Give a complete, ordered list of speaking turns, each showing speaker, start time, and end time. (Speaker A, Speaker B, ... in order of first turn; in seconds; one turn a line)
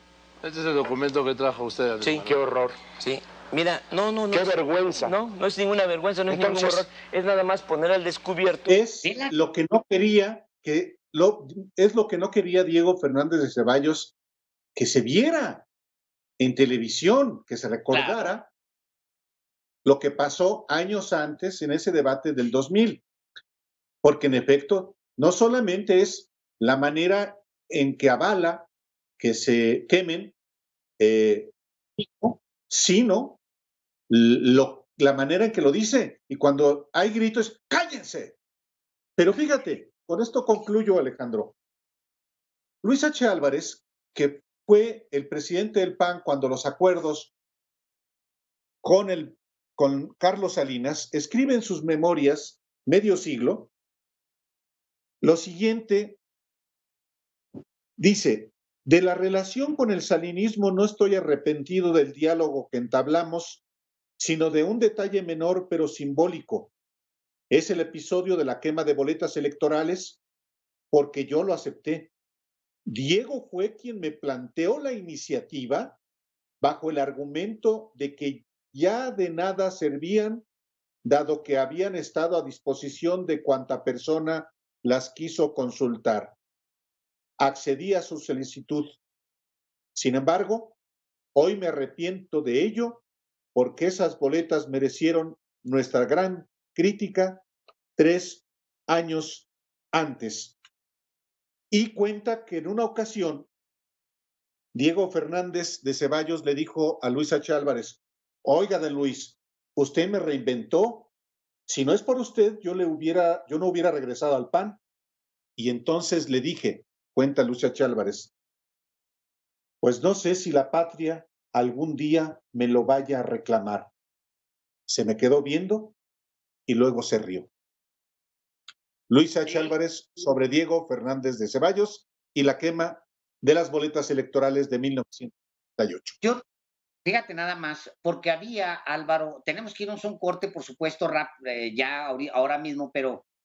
Speaker A: 0.4-2.5
Speaker B: 2.2-2.8
Speaker C: 3.0-8.7
Speaker B: 4.3-5.2
Speaker B: 6.3-6.8
Speaker D: 8.6-14.1
Speaker E: 9.0-9.3
Speaker D: 14.8-15.6
Speaker D: 16.4-18.5
Speaker E: 17.9-18.3
Speaker D: 19.8-23.0
Speaker D: 24.0-28.7
Speaker D: 29.2-30.3
Speaker D: 31.0-33.4
Speaker D: 34.1-38.4
Speaker D: 39.2-41.5
Speaker D: 42.8-47.3
Speaker D: 48.8-53.7
Speaker D: 55.2-56.2
Speaker D: 58.0-63.6
Speaker D: 64.2-66.7
Speaker D: 67.5-70.2
Speaker D: 70.9-72.1
Speaker D: 72.8-76.0
Speaker D: 76.6-80.5
Speaker D: 81.0-86.3
Speaker D: 87.4-89.0
Speaker D: 89.9-90.8
Speaker D: 91.3-93.0
Speaker D: 93.5-97.4
Speaker D: 98.0-100.5
Speaker D: 101.7-103.5
Speaker D: 104.7-111.1
Speaker D: 111.7-114.8
Speaker D: 115.6-118.3
Speaker D: 119.8-123.9
Speaker D: 124.9-125.9
Speaker D: 126.7-127.5
Speaker D: 129.1-136.2
Speaker E: 137.0-143.2